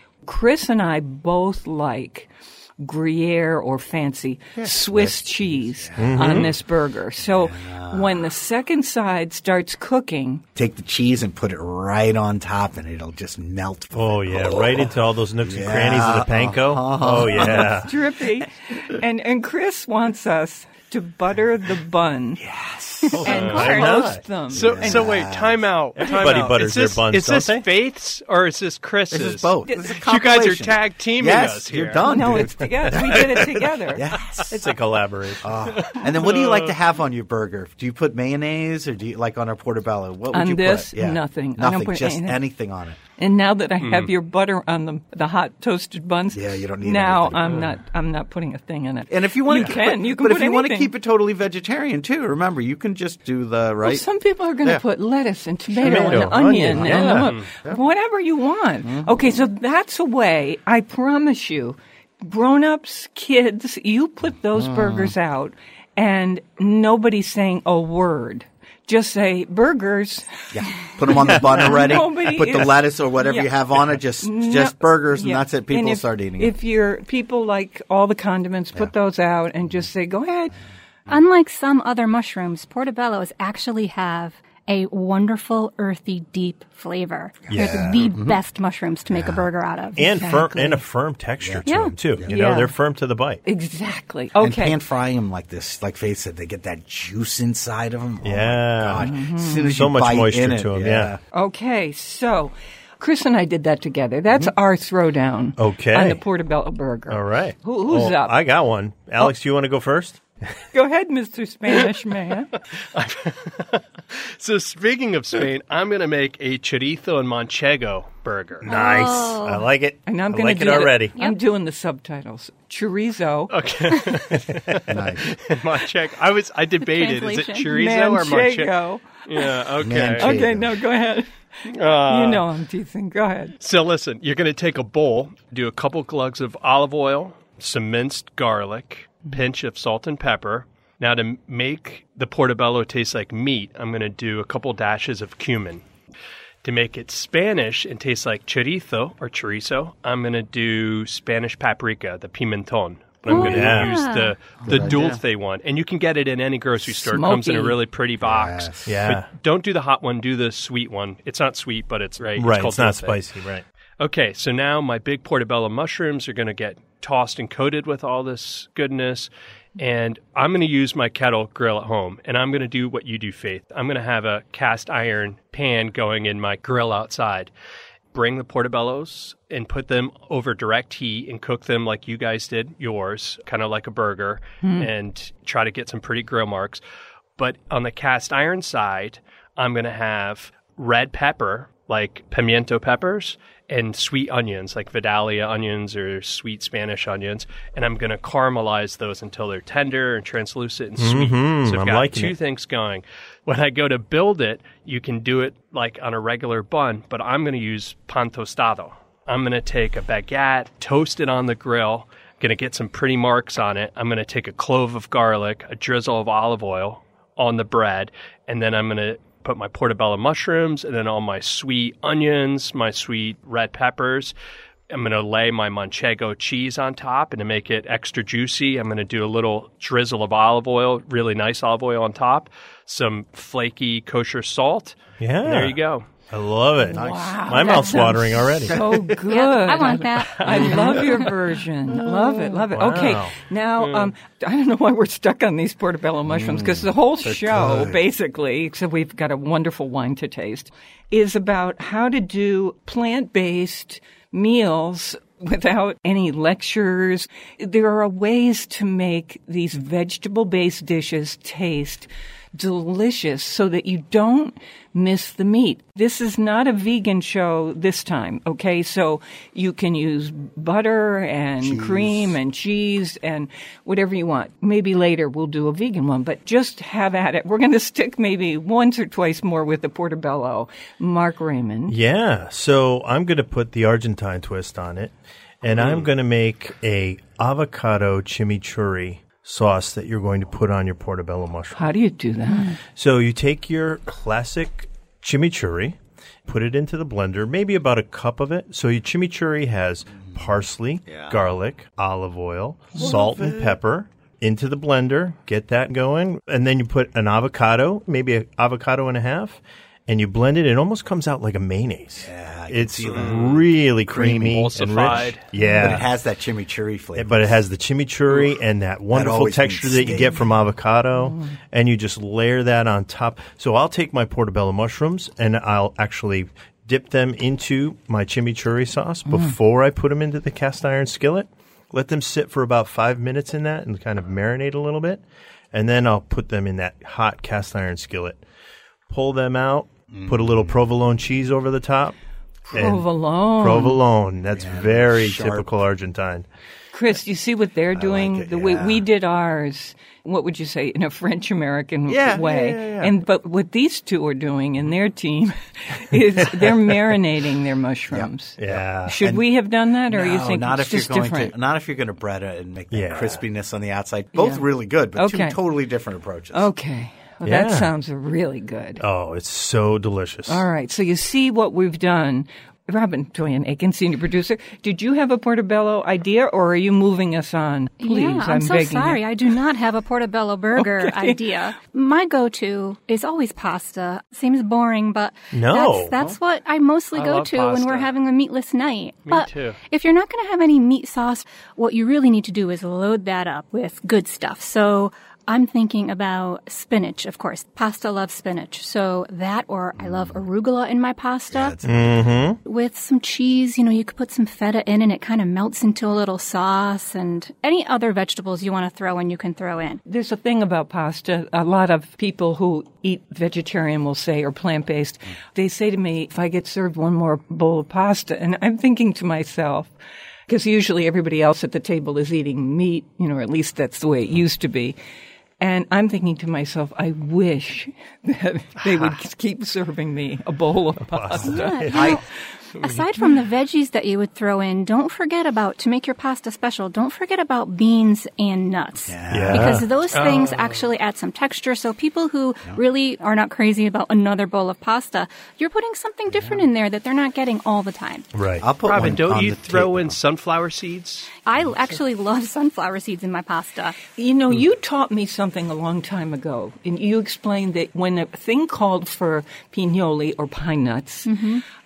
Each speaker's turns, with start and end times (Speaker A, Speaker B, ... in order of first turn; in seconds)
Speaker A: 0.2-10.4, 17.4-22.4, 23.2-24.9, 32.1-34.0, 40.3-42.4, 43.2-50.9, 53.8-73.5, 74.2-80.5, 90.1-90.8, 92.3-92.7, 93.5-94.8, 99.0-99.7, 101.3-108.3, 110.7-112.5, 120.1-123.5, 127.7-129.1, 130.2-133.6, 156.9-157.8, 184.6-184.9, 236.9-281.9, 291.8-292.8, 315.6-316.0, 329.3-329.5, 342.7-344.0, 346.9-361.5, 364.4-364.6, 365.2-365.6, 366.5-369.0, 370.5-379.2, 380.8-381.5, 410.1-419.9, 420.5-425.0, 425.6-431.8, 454.2-461.3
Speaker B: 4.6-6.5, 7.2-8.3, 10.6-14.9, 15.4-17.9, 22.4-23.5, 24.5-25.6, 29.1-34.7, 35.4-43.0, 46.3-47.6, 49.1-54.0, 55.9-57.8, 58.9-59.2, 64.6-65.1, 70.5-76.5, 87.5-88.4, 89.1-89.5, 94.4-101.2, 124.9-125.3, 129.8-130.7, 153.4-153.8, 154.6-155.2, 158.2-159.1, 246.3-246.9, 247.5-248.0, 271.6-272.4, 302.9-303.8, 312.2-315.1, 315.8-317.6, 319.1-320.5, 340.1-340.8, 344.5-345.7, 347.9-349.0, 352.1-353.1, 358.1-359.5, 360.1-366.7, 400.0-400.4, 401.5-402.3, 431.9-432.2, 439.1-440.1, 446.3-446.6, 448.6-450.2
Speaker C: 6.0-6.5, 13.9-17.9, 23.2-24.2, 26.0-27.7, 34.5-35.5, 55.8-57.3, 87.5-88.0, 90.0-93.4, 98.2-99.2, 99.7-101.2, 105.6-106.2, 107.1-110.2, 118.6-121.2, 153.2-154.0, 158.9-159.3, 162.4-163.6, 201.0-202.3, 235.2-238.8, 242.7-243.4, 281.9-291.9, 292.9-316.1, 317.2-335.2, 335.7-338.4, 339.1-342.2, 342.7-346.5, 358.6-359.2, 362.9-363.4, 367.4-367.9, 369.0-370.6, 385.5-386.1, 401.8-402.6, 431.1-432.2, 439.3-439.9, 448.3-448.7
Speaker D: 23.3-23.7, 24.6-32.0, 35.8-36.8, 43.8-44.1, 112.9-118.7, 123.5-128.7, 129.3-130.3, 131.7-132.5, 133.6-145.8, 146.6-163.2, 164.0-177.5, 178.1-186.8, 187.4-224.3, 224.9-236.1, 240.5-240.8, 243.8-244.1, 285.8-286.0, 313.1-313.6, 314.4-315.5, 387.1-388.1, 389.3-389.8, 440.1-440.9, 448.9-451.3
Speaker E: 81.1-90.3, 118.7-119.7, 120.7-121.4, 126.8-127.7, 153.3-154.4, 237.6-238.0, 239.3-241.4, 242.0-242.7, 378.0-401.8, 402.6-410.0, 431.4-432.2, 432.8-448.3, 451.5-454.0, 461.2-461.6